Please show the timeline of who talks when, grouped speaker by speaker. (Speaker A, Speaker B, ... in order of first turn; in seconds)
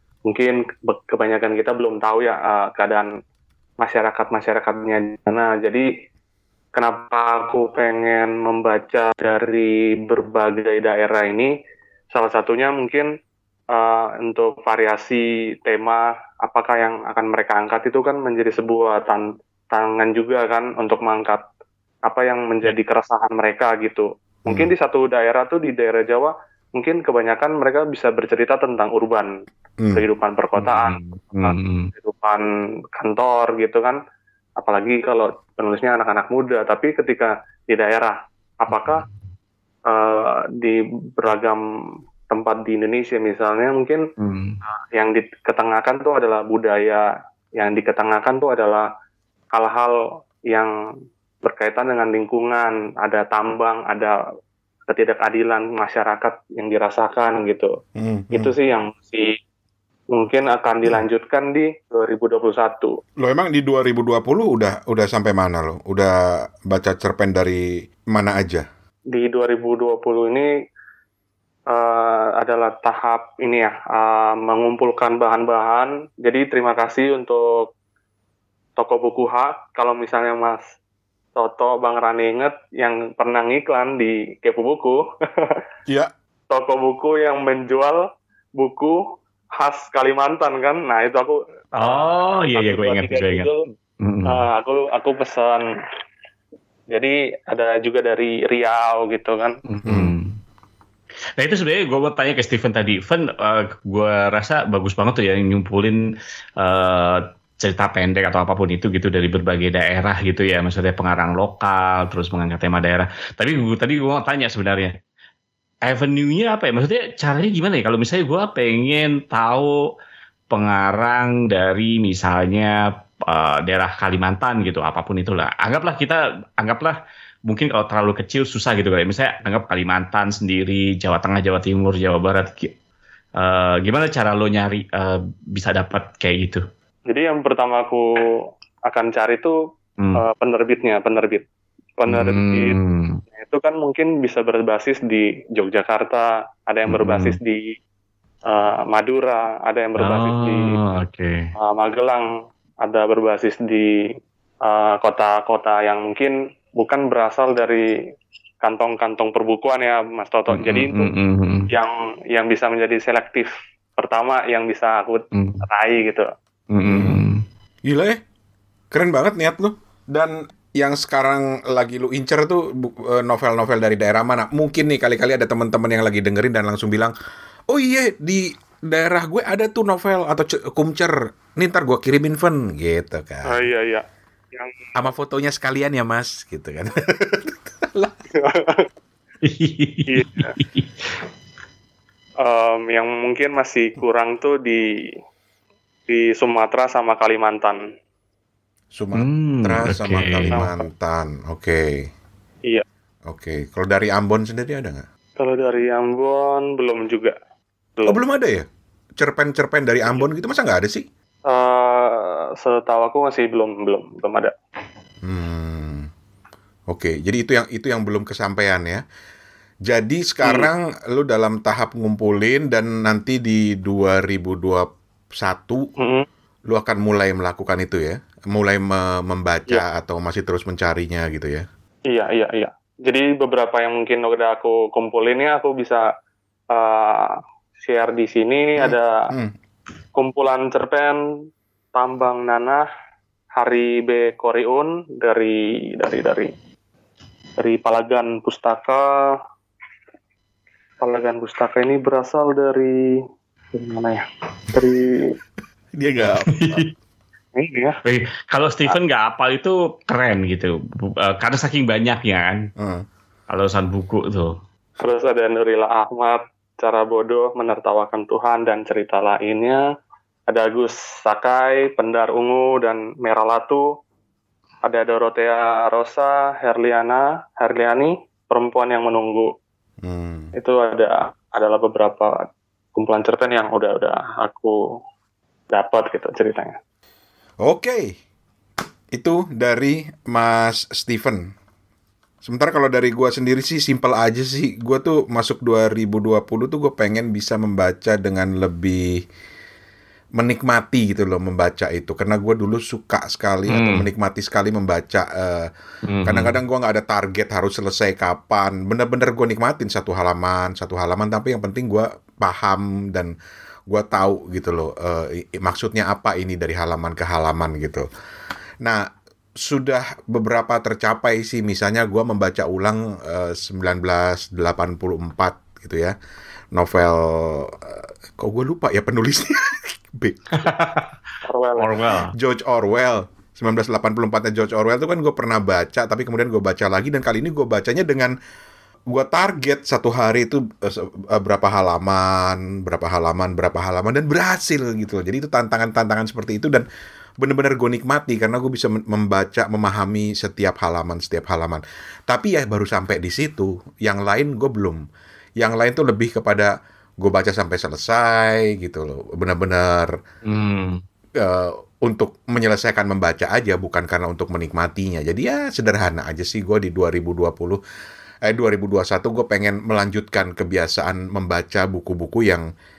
Speaker A: 0.2-3.1, 3.8-5.8, 6.7-11.5, 12.1-13.1, 13.7-21.4, 22.1-29.3, 29.9-34.0, 34.6-39.0, 39.9-41.6, 42.3-44.0, 44.9-47.0, 47.6-48.9, 49.5-50.0, 51.4-54.1, 54.9-57.7, 58.3-59.4, 60.1-63.0, 69.1-70.5, 71.7-77.7, 78.8-80.7, 81.3-85.6, 86.5-88.0, 88.6-89.0, 89.6-93.6, 94.3-95.7, 96.9-99.6, 137.1-138.0, 138.9-139.6, 140.2-141.4, 142.0-142.7, 143.3-147.7, 148.5-150.7, 151.6-152.3, 152.8-153.9, 154.6-157.9, 158.6-161.1, 161.7-166.3, 183.5-184.9, 188.3-188.9, 190.1-190.5, 192.4-194.9, 196.1-197.8, 200.5-200.9, 205.4-207.3, 211.5-214.5, 220.4-220.7, 226.0-226.2, 232.1-236.0, 236.7-239.1, 240.2-241.2, 241.9-242.8, 243.6-246.5, 247.6-249.3, 251.0-253.2, 253.7-255.3, 257.6-258.0, 265.0-269.8, 270.5-273.9, 274.8-279.5, 280.6-282.4, 282.9-284.8, 285.7-286.8, 331.4-331.9
Speaker B: 30.6-31.9, 38.7-39.1, 44.2-44.6, 91.8-94.4, 99.7-100.4, 101.4-106.0, 106.6-114.9, 115.8-119.8, 120.5-127.0, 127.5-132.7, 133.4-136.6, 142.1-143.2, 146.9-147.4, 150.0-151.5, 160.5-161.7, 165.3-165.6, 166.7-167.4, 189.4-191.1, 199.2-200.6, 256.5-256.9, 258.0-262.7, 263.5-264.5, 303.7-304.1, 306.1-306.6, 330.5-331.2, 331.8-332.3, 360.4-361.0
Speaker C: 58.0-58.5, 63.2-68.6, 99.8-100.1, 166.9-167.2, 167.8-168.2, 168.9-177.1, 177.7-183.7, 184.9-188.1, 198.9-202.1, 203.3-205.0, 208.1-208.6, 209.2-211.1, 215.2-216.1, 216.9-219.0, 219.8-225.9, 226.7-231.7, 238.8-239.5, 255.9-256.9, 262.8-263.1, 280.0-280.5, 287.6-288.1, 289.1-291.5, 292.4-299.2, 300.4-305.7, 306.2-313.3, 313.9-318.1, 319.6-326.1, 326.7-330.6, 332.3-338.3, 339.1-346.9, 347.4-355.0, 355.6-360.1, 361.4-367.8, 368.4-372.6